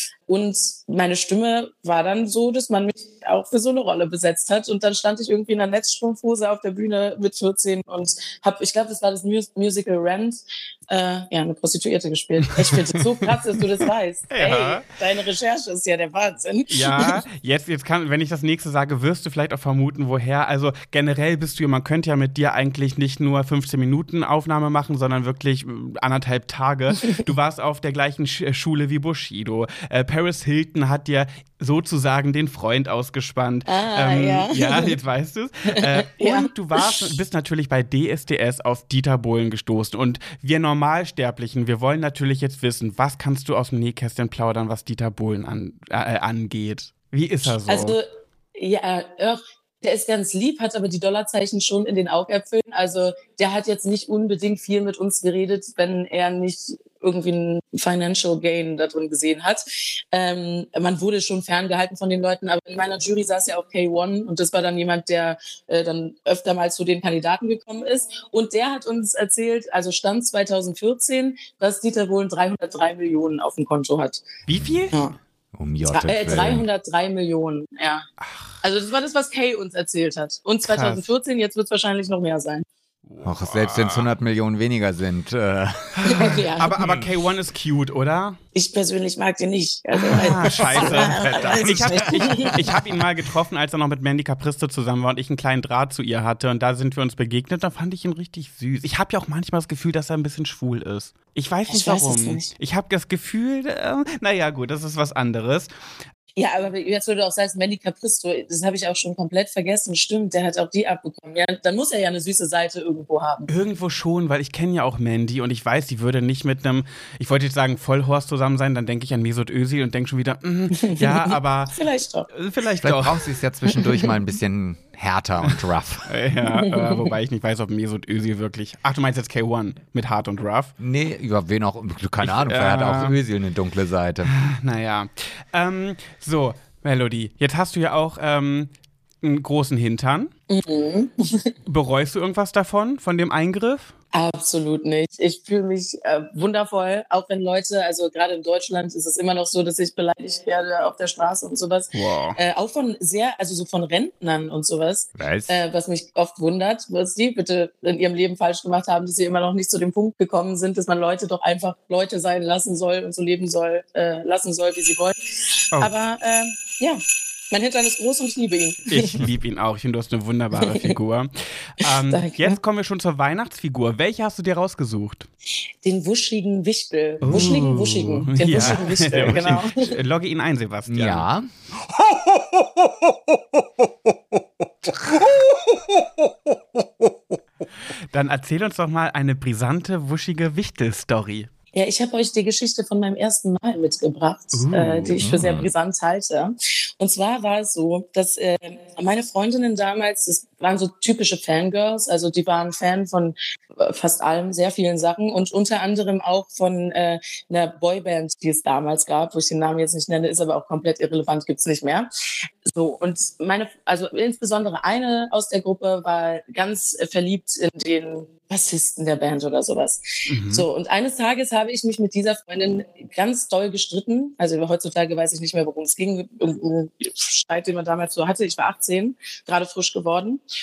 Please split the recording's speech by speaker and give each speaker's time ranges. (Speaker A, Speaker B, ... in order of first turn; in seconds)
Speaker A: 0.3-17.2, 33.7-35.0, 35.7-37.0, 47.7-74.3, 75.8-78.1, 78.6-82.7, 86.1-86.8, 88.5-92.6, 101.7-102.5, 106.4-113.5, 120.8-122.3, 126.5-127.1, 140.5-141.5, 144.1-165.2, 165.8-169.2, 170.6-170.9, 171.8-172.6, 175.8-179.9, 191.7-212.1, 212.6-230.4
Speaker B: 14.3-14.8, 16.7-48.0, 74.5-75.0, 78.3-78.5, 80.7-81.1, 83.1-84.1, 86.0-88.4, 90.1-105.7, 113.5-121.8, 122.3-123.4, 126.1-130.7, 132.2-133.2, 134.2-138.7, 139.2-140.3, 141.7-143.9, 151.9-152.4, 168.9-175.3, 177.2-181.3, 188.1-191.5, 194.5-195.2, 220.3-220.7
Speaker C: 74.5-74.9, 75.5-76.7, 83.2-87.1, 90.6-92.4, 122.8-126.1, 130.8-134.3, 155.2-155.6, 177.2-177.6, 178.5-178.8, 180.9-181.5, 195.2-195.7